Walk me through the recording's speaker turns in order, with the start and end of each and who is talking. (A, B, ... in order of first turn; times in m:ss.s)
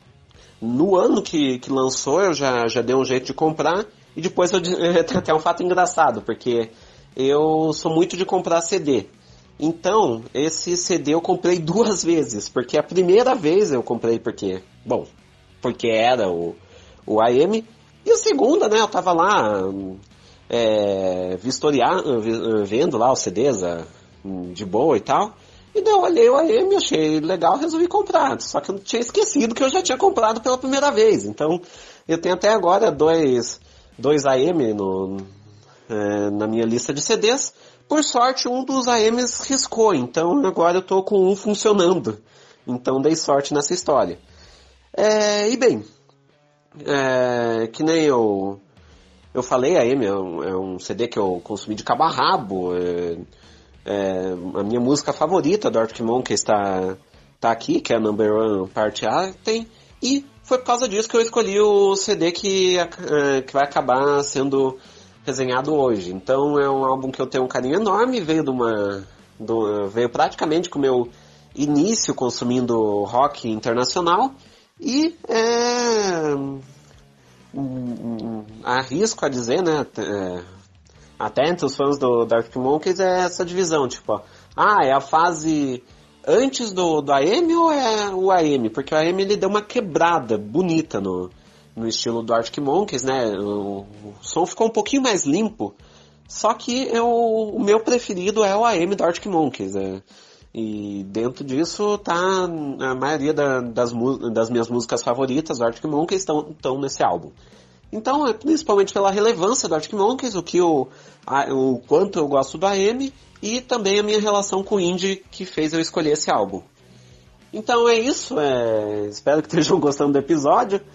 0:00.6-0:15.1 A
0:15.6-0:35.3 A
0:35.9-0:44.2 A
0:44.9-0:45.9 A
0:46.8-0:48.6 A
0:49.3-0:53.3 A
0:53.8-1:16.6 A
1:17.5-1:20.5 A
1:21.2-1:35.8 A
1:36.3-1:47.4 A
1:47.9-1:56.7 A
1:57.5-2:00.8 A